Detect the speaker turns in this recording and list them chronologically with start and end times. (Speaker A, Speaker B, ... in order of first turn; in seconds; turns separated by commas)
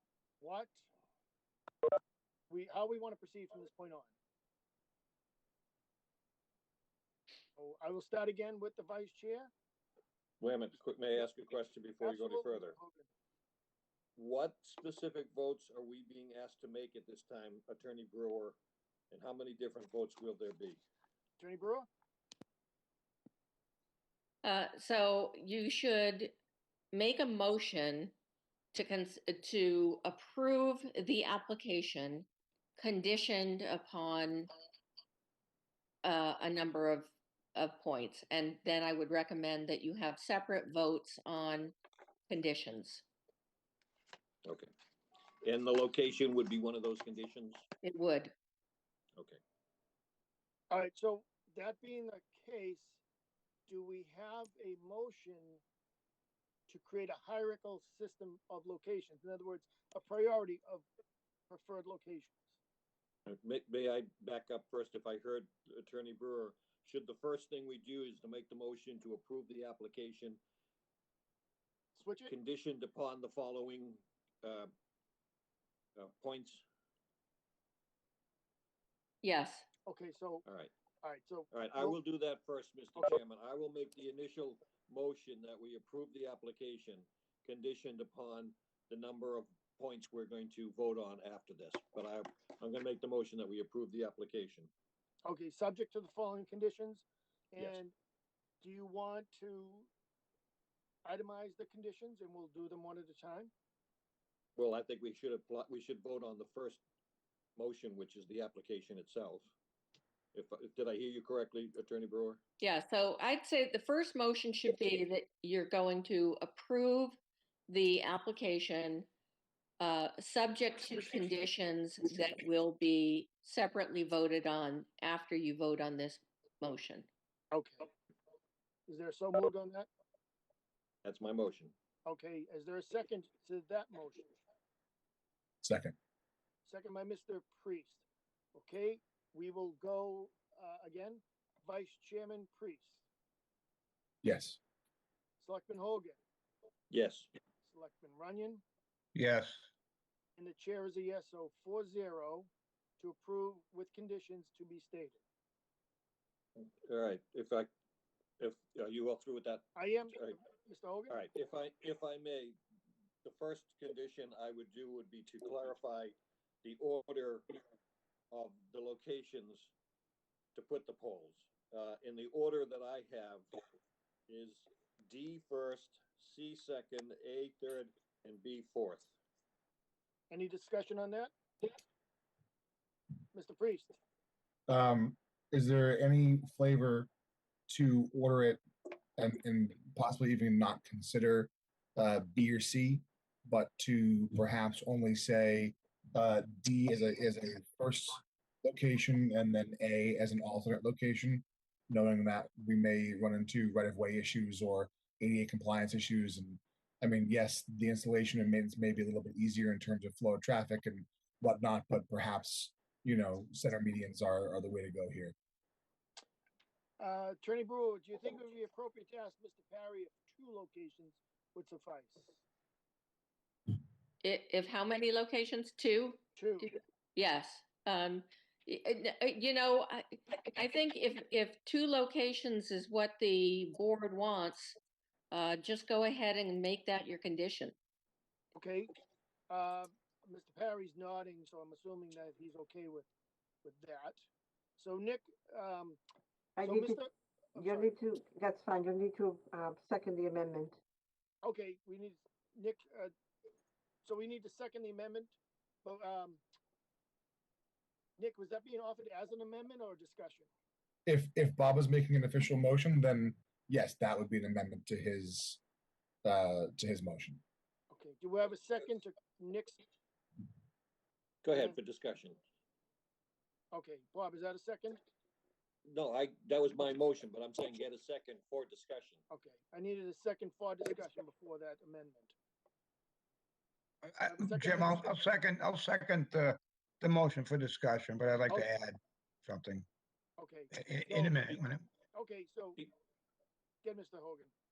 Speaker A: 0.4-0.8, Speaker A: 2.5-4.1, Speaker A: 7.6-9.5, Speaker B: 10.4-12.7, Speaker A: 12.0-13.1, Speaker B: 14.2-18.6, Speaker B: 19.1-20.8, Speaker A: 21.4-21.9, Speaker C: 24.4-26.3, Speaker C: 26.9-28.1, Speaker C: 28.7-34.5, Speaker C: 36.0-41.7, Speaker C: 42.3-43.0, Speaker B: 45.4-47.6, Speaker C: 47.8-48.3, Speaker A: 50.7-53.0, Speaker A: 53.7-55.6, Speaker A: 56.7-60.9, Speaker A: 61.5-62.4, Speaker B: 63.2-70.4, Speaker A: 71.9-72.3, Speaker B: 72.3-74.7, Speaker B: 76.0-76.6, Speaker C: 79.2-79.6, Speaker A: 79.8-80.4, Speaker B: 80.4-80.7, Speaker A: 81.0-82.0, Speaker B: 81.5-94.7, Speaker A: 95.2-97.9, Speaker A: 98.6-99.9, Speaker A: 101.0-103.5, Speaker B: 104.5-106.8, Speaker B: 107.5-109.5, Speaker B: 110.3-112.4, Speaker C: 112.6-117.2, Speaker C: 117.7-119.1, Speaker C: 119.8-127.1, Speaker A: 127.5-127.9, Speaker A: 128.9-129.9, Speaker B: 131.0-131.7, Speaker A: 132.1-134.3, Speaker D: 135.6-135.9, Speaker A: 136.6-143.0, Speaker D: 144.2-144.6, Speaker A: 145.4-146.2, Speaker B: 146.9-147.3, Speaker A: 147.6-148.6, Speaker E: 149.1-149.6, Speaker A: 150.4-155.2, Speaker B: 156.6-157.7, Speaker B: 158.4-160.4, Speaker A: 159.7-161.2, Speaker B: 161.1-162.6, Speaker B: 163.2-167.5, Speaker B: 168.3-169.7, Speaker B: 170.5-173.5, Speaker B: 174.3-179.1, Speaker A: 180.3-181.3, Speaker A: 183.3-184.0, Speaker D: 184.7-187.1, Speaker D: 187.7-188.6, Speaker D: 189.2-215.3, Speaker A: 217.0-222.4, Speaker C: 224.2-234.8, Speaker A: 226.3-226.7, Speaker C: 235.3-237.7, Speaker A: 238.5-238.9, Speaker A: 239.5-243.1, Speaker A: 243.6-244.2, Speaker A: 244.8-246.0, Speaker F: 246.6-247.0, Speaker A: 246.6-247.9, Speaker F: 247.6-250.8, Speaker A: 251.4-253.1, Speaker A: 254.0-256.4, Speaker A: 258.2-260.5, Speaker D: 261.1-265.6, Speaker D: 266.2-267.4, Speaker A: 267.9-269.8, Speaker B: 271.4-272.4, Speaker A: 273.7-275.0, Speaker B: 275.9-279.2, Speaker A: 279.3-282.3, Speaker E: 284.1-289.9, Speaker A: 284.3-285.1, Speaker A: 290.4-291.4, Speaker E: 290.7-291.8, Speaker A: 292.1-292.8, Speaker A: 293.8-294.5